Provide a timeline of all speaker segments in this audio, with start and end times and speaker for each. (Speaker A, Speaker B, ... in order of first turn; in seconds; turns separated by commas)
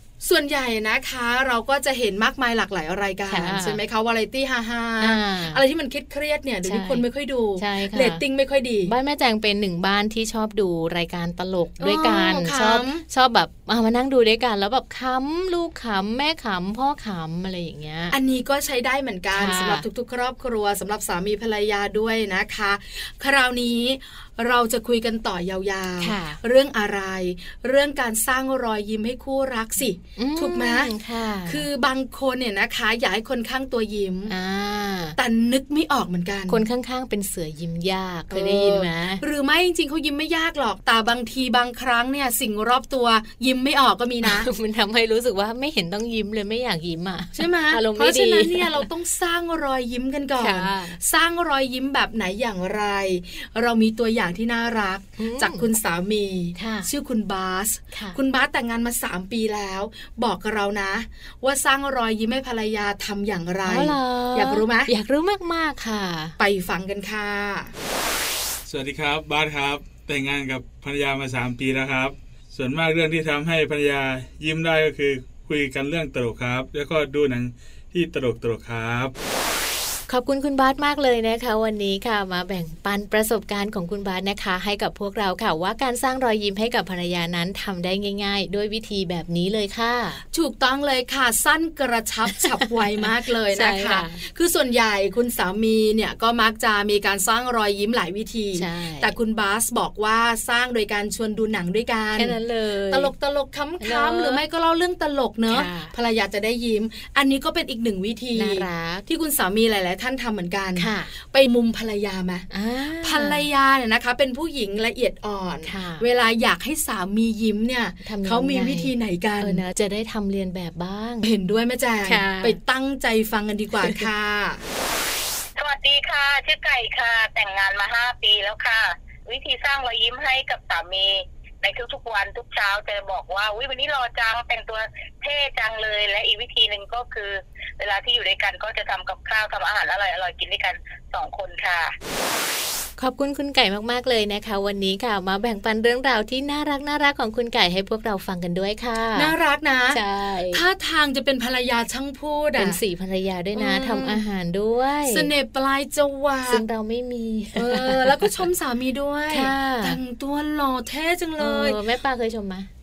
Speaker A: 0.2-8.9, Speaker B: 3.3-3.8, Speaker B: 5.0-5.6, Speaker B: 6.7-7.1, Speaker B: 7.6-8.2, Speaker B: 8.9-18.2, Speaker A: 11.8-13.0, Speaker A: 18.1-30.9, Speaker B: 19.3-19.9, Speaker B: 26.0-26.4, Speaker B: 30.2-31.7, Speaker A: 31.5-34.3, Speaker B: 34.3-35.2, Speaker A: 35.2-36.6, Speaker B: 36.5-39.2, Speaker A: 38.3-44.5, Speaker B: 44.2-48.9, Speaker A: 47.4-64.9, Speaker B: 50.4-51.0, Speaker B: 55.2-55.7, Speaker B: 56.6-56.9, Speaker B: 57.9-58.2, Speaker B: 63.7-66.4, Speaker A: 66.4-67.7, Speaker C: 68.7-79.1, Speaker B: 80.1-90.2, Speaker A: 90.3-102.4, Speaker B: 92.3-94.2, Speaker B: 98.6-99.2, Speaker B: 102.2-103.1, Speaker A: 102.9-112.5, Speaker B: 103.8-104.4, Speaker B: 105.5-105.9, Speaker B: 108.3-109.0, Speaker B: 110.8-111.1, Speaker B: 112.5-113.5, Speaker A: 113.0-119.6, Speaker B: 115.6-116.0, Speaker B: 118.0-121.3, Speaker A: 121.2-124.6, Speaker B: 122.0-122.6, Speaker B: 123.8-124.1, Speaker D: 125.6-141.9, Speaker B: 143.0-149.3, Speaker A: 149.2-150.0, Speaker B: 149.9-150.6, Speaker A: 150.5-152.8, Speaker B: 152.6-155.3, Speaker A: 153.6-154.2, Speaker A: 155.1-156.6, Speaker B: 156.5-158.5, Speaker A: 157.6-161.8, Speaker B: 159.3-160.0, Speaker B: 161.4-162.7